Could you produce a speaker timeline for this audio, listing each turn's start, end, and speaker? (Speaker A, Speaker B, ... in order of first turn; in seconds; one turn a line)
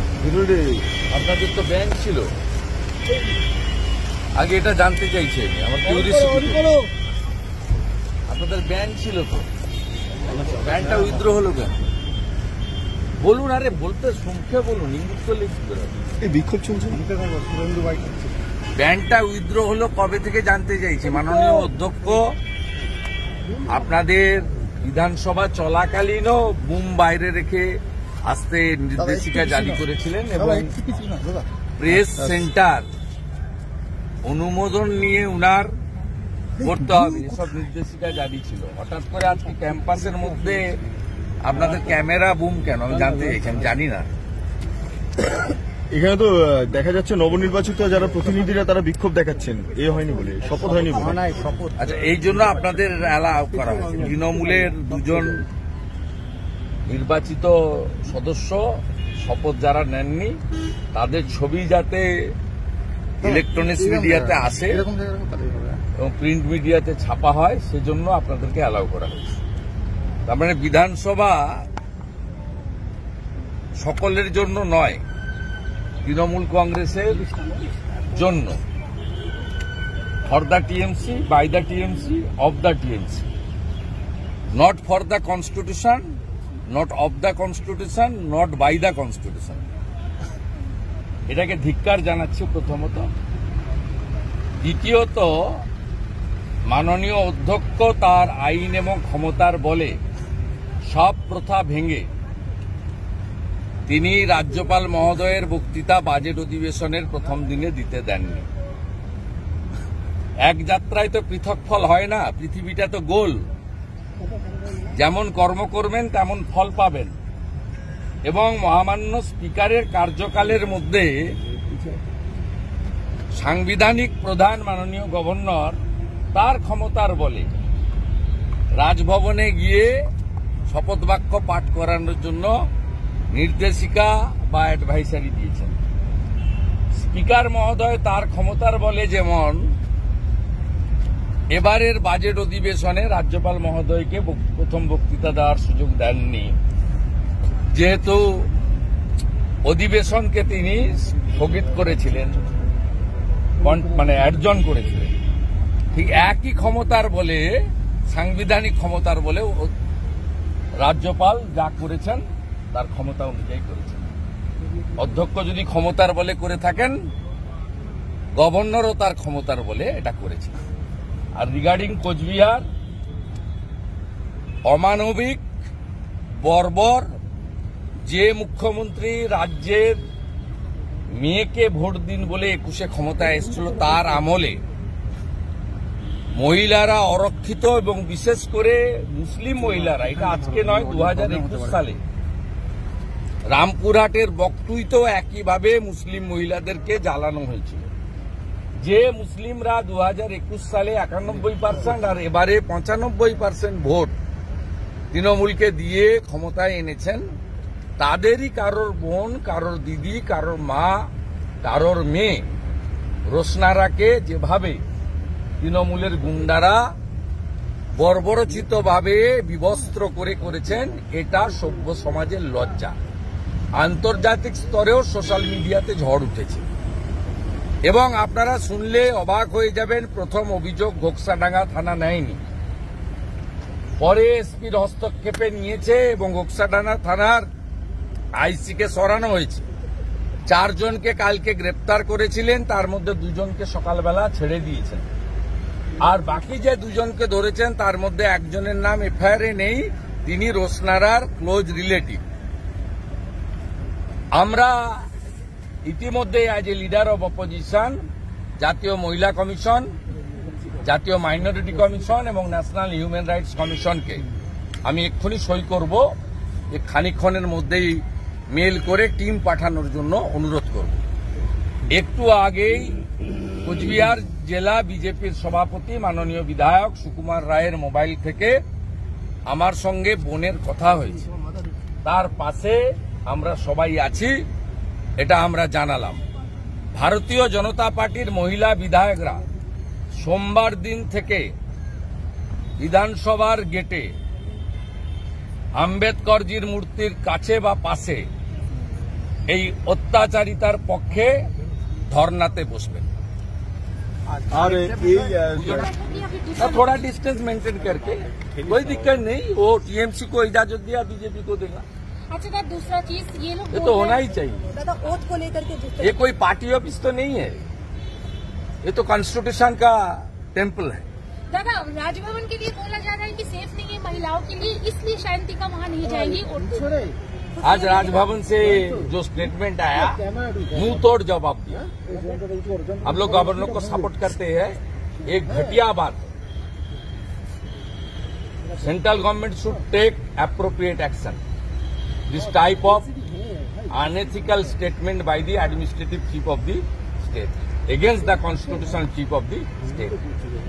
Speaker A: 0.2-0.8
Speaker B: 1.1-2.3
Speaker B: 4.4-6.7
Speaker B: 8.3-9.5
Speaker B: 10.3-11.8
Speaker B: 13.2-16.0
Speaker A: 16.2-17.1
Speaker C: 17.5-18.1
Speaker B: 18.8-22.2
Speaker B: 23.6-27.7
Speaker B: 28.2-30.8
Speaker B: 31.8-32.9
Speaker B: 34.2-35.7
Speaker B: 36.6-40.7
Speaker B: 41.4-44.1
Speaker A: 45.9-51.4
Speaker B: 51.8-55.5
Speaker B: 56.9-58.6
Speaker B: 59.2-60.4
Speaker B: 60.9-62.1
Speaker B: 63.2-64.9
Speaker C: 64.9-65.8
Speaker B: 66.0-69.2
Speaker B: 70.3-71.7
Speaker B: 73.8-75.0
Speaker B: 76.0-77.3
Speaker B: 78.1-78.6
Speaker B: 80.3-83.2
Speaker B: 84.5-86.0
Speaker B: 86.7-89.6
Speaker B: 91.3-93.1
Speaker B: 94.6-95.6
Speaker B: 96.7-100.0
Speaker B: 100.9-102.1
Speaker B: 103.9-108.5
Speaker B: 110.5-113.5
Speaker B: 114.9-117.1
Speaker B: 118.2-121.3
Speaker B: 123.3-125.8
Speaker B: 126.3-127.6
Speaker B: 128.8-130.0
Speaker B: 130.7-132.5
Speaker B: 133.3-135.8
Speaker B: 137.0-139.7
Speaker B: 141.5-146.6
Speaker B: 147.7-148.5
Speaker B: 149.7-152.4
Speaker B: 153.6-155.1
Speaker B: 155.9-157.6
Speaker B: 158.1-159.7
Speaker B: 160.8-164.1
Speaker B: 165.0-167.0
Speaker B: 168.4-170.6
Speaker B: 171.3-172.7
Speaker B: 174.7-175.4
Speaker B: 176.4-177.1
Speaker B: 178.1-180.0
Speaker B: 181.2-184.6
Speaker B: 186.4-192.0
Speaker B: 193.5-197.9
Speaker B: 198.8-204.1
Speaker B: 205.1-207.2
Speaker B: 208.0-211.1
Speaker B: 211.6-212.5
Speaker B: 213.3-214.8
Speaker B: 215.6-216.8
Speaker B: 218.0-222.9
Speaker B: 223.8-226.7
Speaker B: 227.8-232.4
Speaker B: 234.0-237.5
Speaker B: 238.4-239.7
Speaker B: 240.5-245.1
Speaker B: 246.0-252.2
Speaker B: 254.3-255.1
Speaker B: 255.8-258.0
Speaker B: 258.6-259.9
Speaker B: 260.8-264.2
Speaker B: 264.9-266.1
Speaker B: 266.7-271.0
Speaker B: 271.9-273.0
Speaker B: 273.6-278.6
Speaker B: 279.5-281.3
Speaker B: 282.1-284.4
Speaker B: 285.2-286.2
Speaker B: 286.9-289.4
Speaker B: 290.2-291.5
Speaker B: 292.8-294.1
Speaker B: 295.8-298.3
Speaker B: 299.5-301.3
Speaker B: 302.1-303.1
Speaker A: 304.5-305.9
Speaker B: 305.6-305.9
Speaker D: 305.6-307.1
Speaker B: 306.6-311.9
Speaker D: 312.3-314.2
Speaker B: 313.7-314.7
Speaker C: 314.7-316.1
Speaker D: 315.4-315.8
Speaker B: 316.0-317.6
Speaker B: 318.8-321.1
Speaker D: 321.5-327.1
Speaker D: 327.6-328.2
Speaker B: 327.6-331.9
Speaker C: 332.3-332.7
Speaker B: 333.0-336.3
Speaker B: 338.8-341.4
Speaker B: 342.3-343.1
Speaker B: 343.9-350.2